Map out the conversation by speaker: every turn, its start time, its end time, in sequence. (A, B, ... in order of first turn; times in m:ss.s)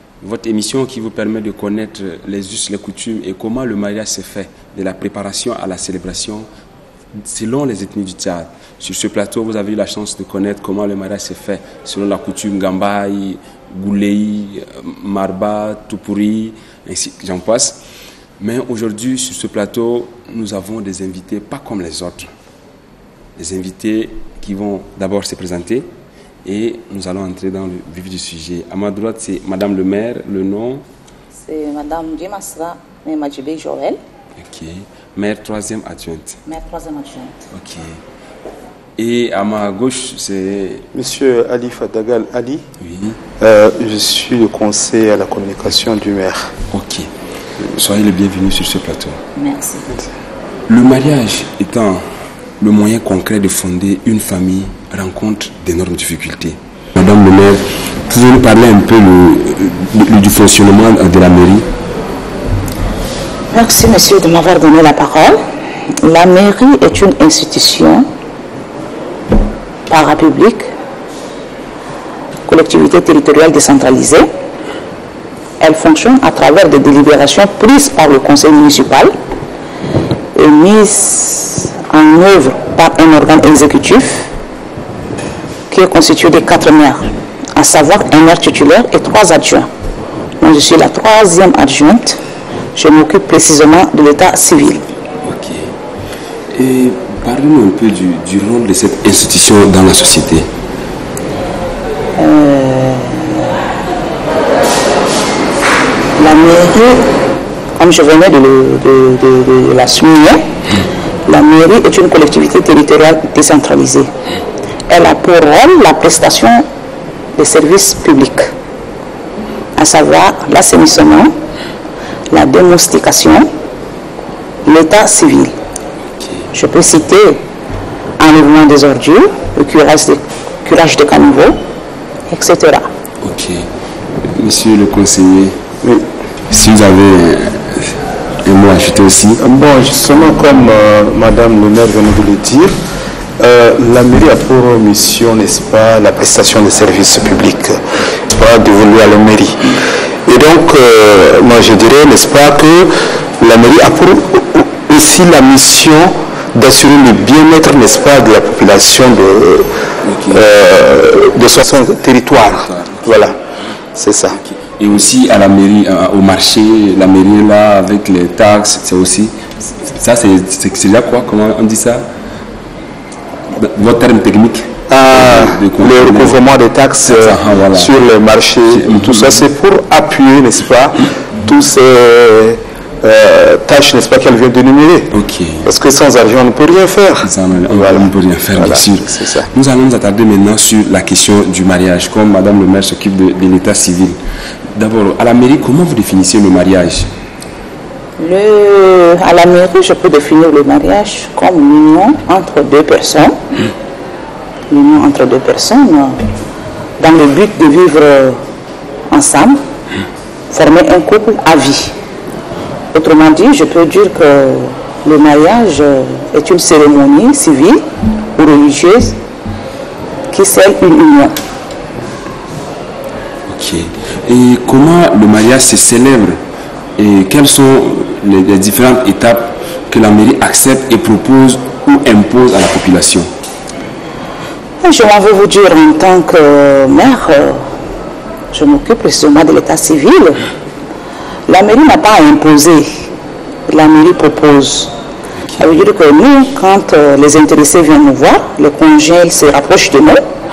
0:00.2-0:06.5 A
0:07.2-0:17.8 A
0:18.4-0:22.3 A
0:23.4-0:25.9 A
0:26.4-0:30.8 A
0:31.5-0:34.0 B
0:34.4-0:36.4 A
0:36.5-0:37.4 B
0:37.5-0:38.0 A
0:39.0-0:40.9 A
0:40.9-0:42.7 C
0:42.8-0:43.2 A
0:43.4-0:46.5 C
0:46.7-0:47.1 A
0:47.7-0:49.2 A
0:49.4-0:49.9 B
0:50.7-0:52.0 A
0:52.6-1:01.7 A
1:03.5-1:05.4 B
1:06.0-1:08.1 B
1:09.9-1:10.7 B
1:12.5-1:14.3 B
1:15.6-1:19.2 B
1:20.3-1:24.3 B
1:25.7-1:29.7 B
1:30.4-1:32.2 B
1:32.8-1:34.9 B
1:35.2-1:35.7 A
1:36.5-1:40.5 A
1:42.2-1:43.7 B
1:46.2-1:47.1 B
1:47.8-1:50.5 B
1:51.3-1:54.1 B
1:54.9-1:56.7 B
1:57.4-1:58.5 B
1:59.8-2:01.4 B
2:02.3-2:03.5 B
2:04.6-2:05.6 B
2:06.1-2:06.5 A
2:06.5-2:07.4 B
2:08.2-2:11.6 B
2:12.3-2:12.9 B
2:13.2-2:13.7 A
2:14.2-2:15.7 A
2:16.5-2:19.4 A
2:19.4-2:22.7 C
2:23.4-2:39.8 C
2:40.0-2:40.5 A
2:40.3-2:43.4 C
2:41.7-2:43.4 A
2:44.0-2:44.4 C
2:44.3-2:52.1 A
2:53.5-2:56.4 A
2:54.9-3:05.1 C
2:57.0-2:57.9 A
2:58.7-2:59.4 A
3:05.1-3:05.7 A
3:05.6-3:09.5 C
3:07.2-3:14.2 A
3:14.7-3:17.1 A
3:18.2-3:23.4 B
3:24.7-3:26.2 B
3:27.0-3:28.4 B
3:29.1-3:29.6 B
3:30.5-3:31.9 B
3:32.9-3:39.2 B
3:40.3-3:41.4 B
3:43.5-3:46.4 A
3:47.0-3:53.3 A
3:54.8-3:57.7 B
3:58.5-4:00.4 B
4:01.5-4:03.1 B
4:03.7-4:04.9 B
4:05.6-4:10.2 B